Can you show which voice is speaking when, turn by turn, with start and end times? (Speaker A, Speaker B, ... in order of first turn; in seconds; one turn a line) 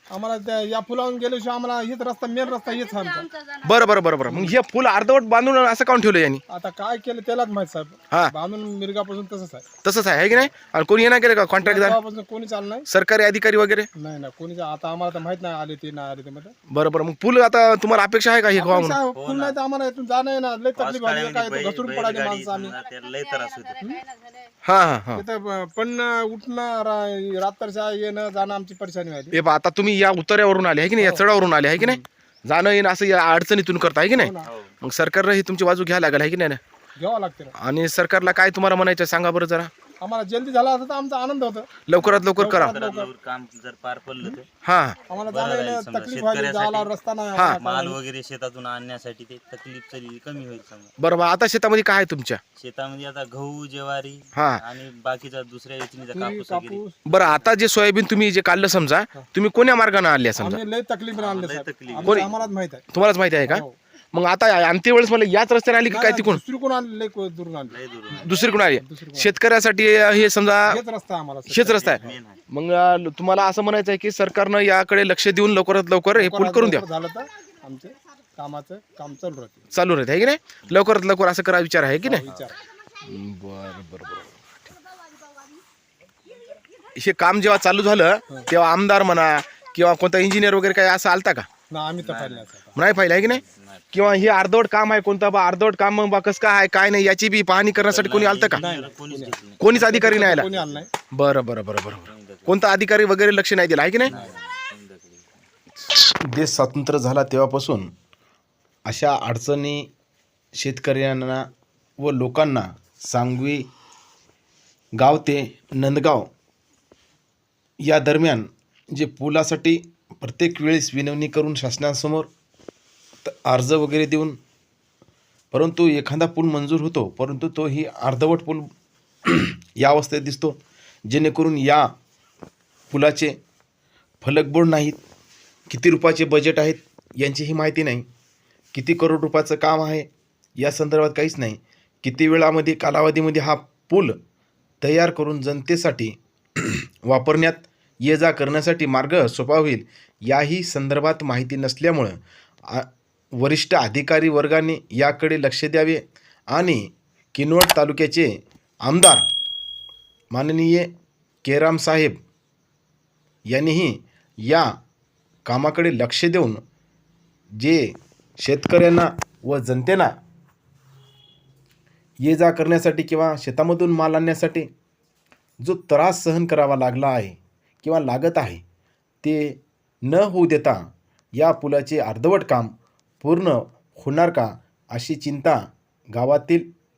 Speaker A: 0.1-3.3
Speaker B: 2.5-3.9
Speaker C: 3.6-6.4
Speaker A: 4.2-4.5
Speaker A: 6.5-9.7
Speaker C: 9.8-12.0
Speaker A: 11.6-12.8
Speaker C: 12.9-13.9
Speaker A: 13.9-16.5
Speaker C: 16.7-19.0
Speaker A: 18.5-22.8
Speaker D: 19.1-19.6
Speaker D: 20.7-23.8
Speaker B: 22.7-24.5
Speaker C: 24.6-25.2
Speaker A: 25.1-29.3
Speaker C: 29.3-36.6
Speaker A: 31.0-31.2
Speaker A: 34.1-34.5
Speaker D: 34.4-34.7
Speaker A: 37.0-37.5
Speaker C: 37.5-39.7
Speaker A: 40.0-41.7
Speaker C: 41.9-42.8
Speaker D: 41.9-44.5
Speaker A: 42.4-43.1
Speaker C: 44.6-45.0
Speaker A: 45.1-48.0
Speaker D: 45.3-46.9
Speaker D: 47.6-50.9
Speaker C: 51.0-52.4
Speaker D: 52.5-57.5
Speaker C: 54.3-54.6
Speaker A: 56.1-57.0
Speaker C: 57.1-60.6
Speaker A: 60.4-62.8
Speaker D: 61.1-62.5
Speaker C: 62.0-62.3
Speaker C: 62.9-66.4
Speaker A: 63.4-63.8
Speaker A: 65.9-69.3
Speaker D: 67.7-68.3
Speaker C: 68.2-70.8
Speaker A: 70.7-72.2
Speaker C: 71.5-76.8
Speaker D: 71.7-72.4
Speaker A: 76.1-79.7
Speaker C: 79.7-82.2
Speaker A: 82.0-82.6
Speaker D: 82.3-82.5
Speaker C: 83.0-84.4
Speaker C: 87.0-91.5
Speaker A: 91.7-92.7
Speaker D: 92.0-94.3
Speaker C: 92.8-98.6
Speaker D: 97.8-100.8
Speaker A: 98.5-100.9
Speaker C: 99.6-100.5
Speaker C: 101.1-104.1
Speaker D: 102.0-102.6
Speaker D: 104.0-105.4
Speaker C: 105.8-107.9
Speaker C: 108.9-109.9
Speaker C: 110.5-111.4
Speaker C: 112.0-113.6
Speaker C: 115.0-116.3
Speaker C: 117.8-122.3
Speaker C: 123.2-124.4
Speaker C: 125.5-128.7
Speaker C: 129.2-131.9
Speaker C: 132.9-133.3
Speaker C: 134.2-135.0
Speaker C: 135.7-138.1
Speaker C: 138.7-144.2
Speaker C: 144.8-158.3
Speaker C: 158.8-159.2
Speaker C: 160.3-160.9
Speaker C: 161.4-162.2
Speaker C: 163.5-164.7
Speaker C: 165.4-166.6
Speaker C: 167.6-170.1
Speaker C: 172.2-174.7
Speaker C: 175.6-178.6
Speaker C: 179.2-180.8
Speaker C: 181.3-185.6
Speaker C: 186.1-186.7